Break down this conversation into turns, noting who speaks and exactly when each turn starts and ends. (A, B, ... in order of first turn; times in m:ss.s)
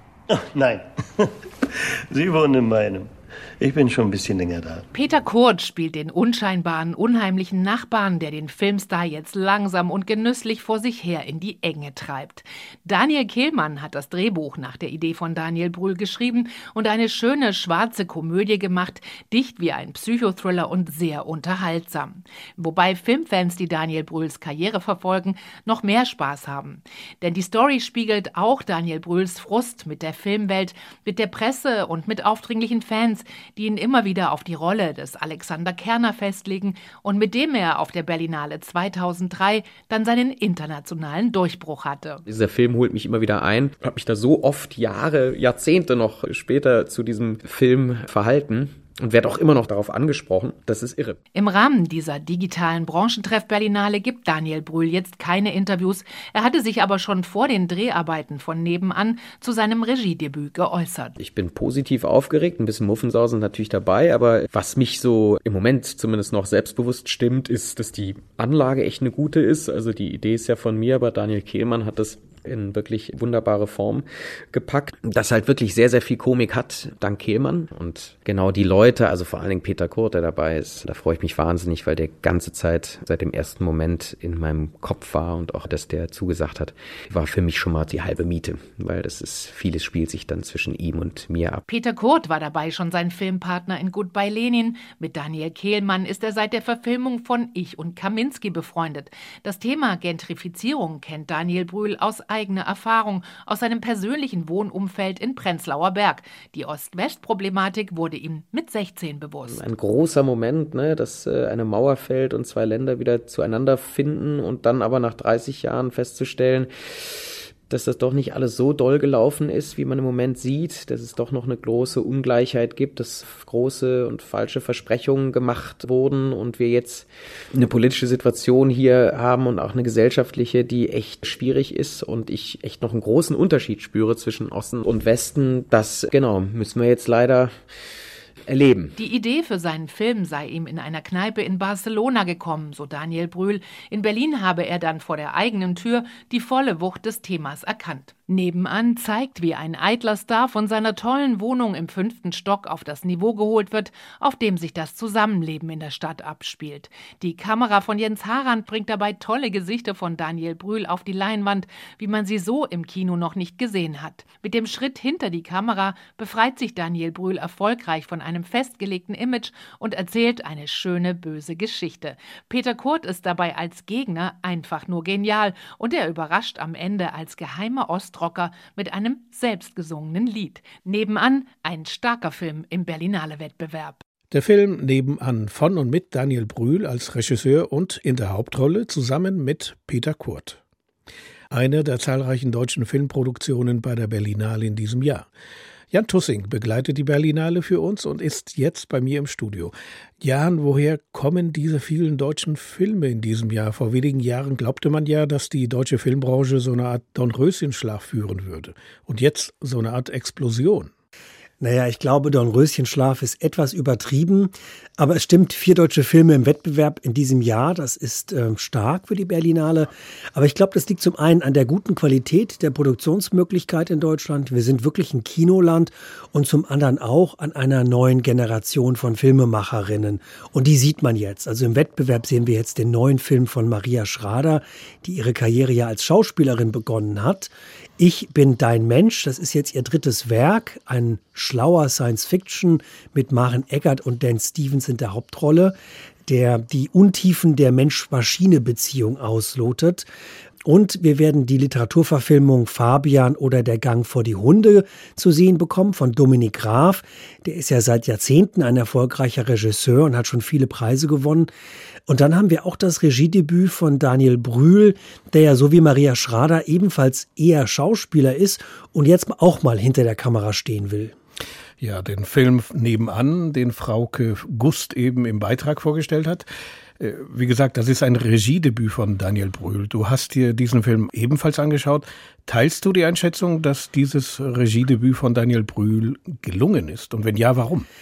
0:00.3-0:04.9 A
0:04.9-0:42.2 B
0:42.3-0:51.2 C
0:51.3-1:01.2 B
1:01.2-1:31.6 C
1:31.7-1:49.6 B
1:49.5-2:17.6 C
2:18.5-2:19.0 C
2:19.0-3:04.0 B
3:04.3-3:10.6 D
3:11.5-3:15.3 D
3:15.9-3:30.9 D
3:31.6-4:05.7 E
4:06.3-4:10.1 E
4:10.6-4:21.5 E
4:22.0-4:31.1 E
4:31.8-4:36.5 D
4:37.0-4:47.9 D